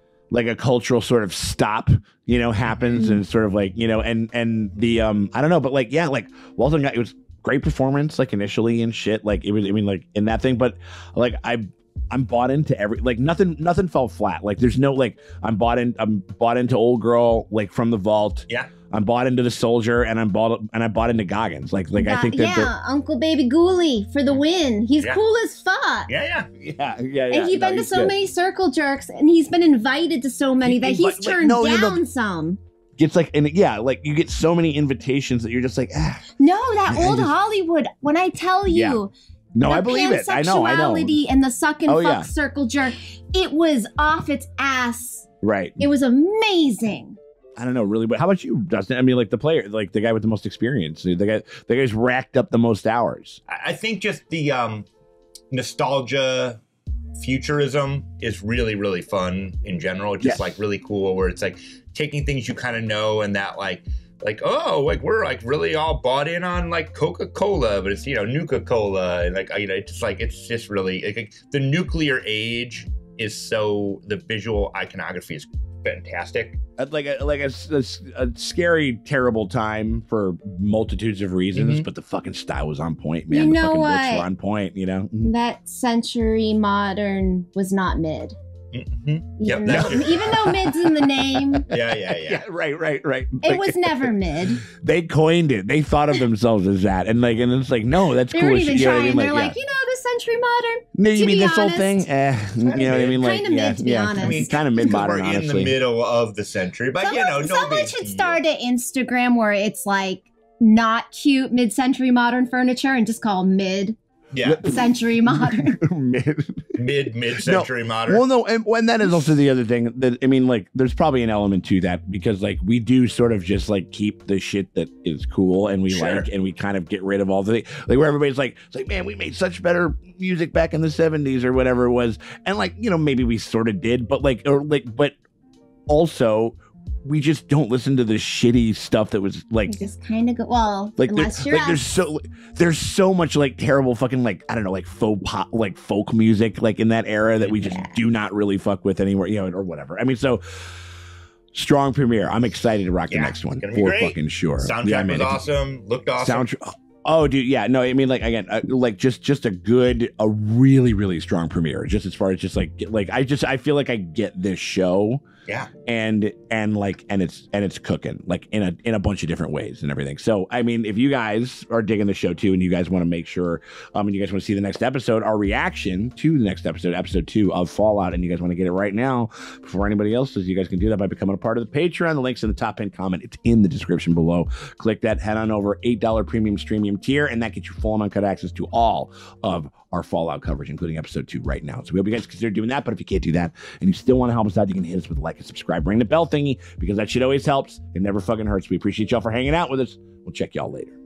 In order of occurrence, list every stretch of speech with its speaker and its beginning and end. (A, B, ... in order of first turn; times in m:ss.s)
0:00.3-0:22.7 A
0:02.6-0:03.1 B
0:22.0-0:26.1 C
0:26.1-0:26.5 B
0:26.6-0:28.1 A
0:27.3-0:32.6 C
0:30.6-0:32.0 A
0:33.0-0:36.3 A
0:36.4-0:39.1 C
0:36.9-0:37.3 A
0:38.7-0:39.0 A
0:39.5-0:41.2 A
0:39.6-0:45.3 C
0:41.9-0:42.3 A
0:45.4-0:45.8 A
0:45.8-0:47.2 C
0:47.6-0:53.4 A
0:53.5-0:54.9 B
0:55.5-0:56.6 B
0:57.2-1:16.6 B
1:00.2-1:00.6 A
1:16.8-1:25.3 A
1:21.5-1:21.8 B
1:23.3-1:24.3 C
1:25.2-1:28.4 C
1:28.7-1:30.4 B
1:29.4-1:31.6 C
1:29.6-1:34.1 A
1:31.7-1:32.4 B
1:33.4-1:34.6 C
1:34.7-1:39.6 A
1:38.3-1:42.0 C
1:40.9-1:45.8 A
1:42.7-1:44.5 C
1:42.7-1:43.2 B
1:44.2-1:48.4 B
1:47.0-1:54.0 C
1:54.3-1:54.6 B
1:54.4-2:15.2 A
1:54.7-1:55.8 C
1:56.8-1:58.2 B
2:05.9-2:06.2 B
2:15.9-2:19.8 A
2:19.7-2:21.8 C
2:21.0-2:30.4 A
2:27.5-2:28.0 C
2:31.5-2:35.4 A
2:33.1-2:36.5 B
2:36.2-2:45.2 A
2:45.8-3:21.0 A